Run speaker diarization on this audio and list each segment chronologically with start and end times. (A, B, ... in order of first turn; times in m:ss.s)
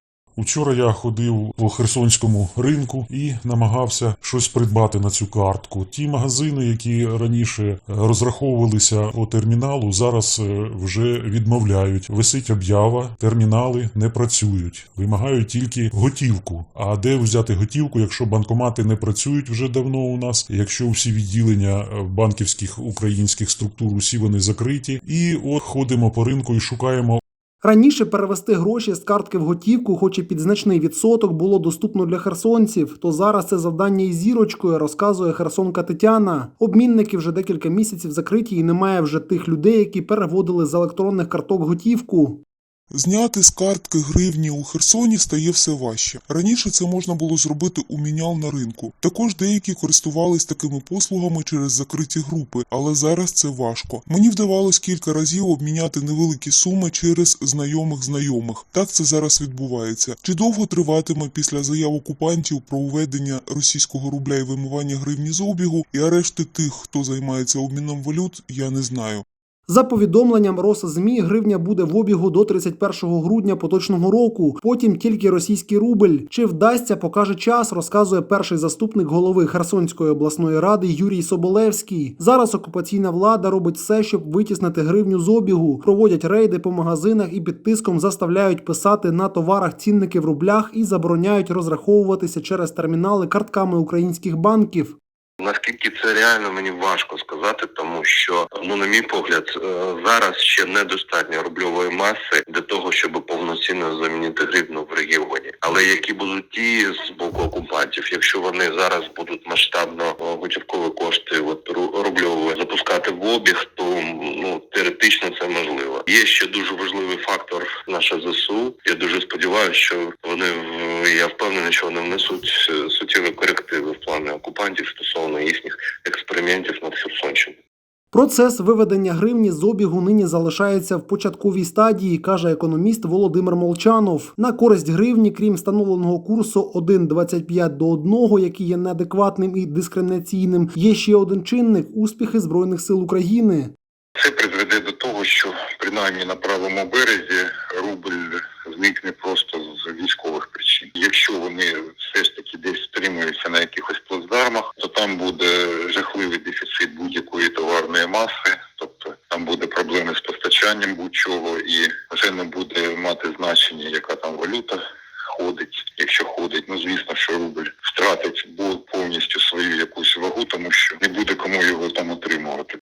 0:00.4-0:27.2 A
0:27.6-0:42.4 B
0:42.9-1:09.2 C
1:09.7-1:35.0 B
1:35.4-2:07.5 D
2:08.1-2:23.7 B
2:24.2-2:44.8 E
2:45.3-2:52.8 E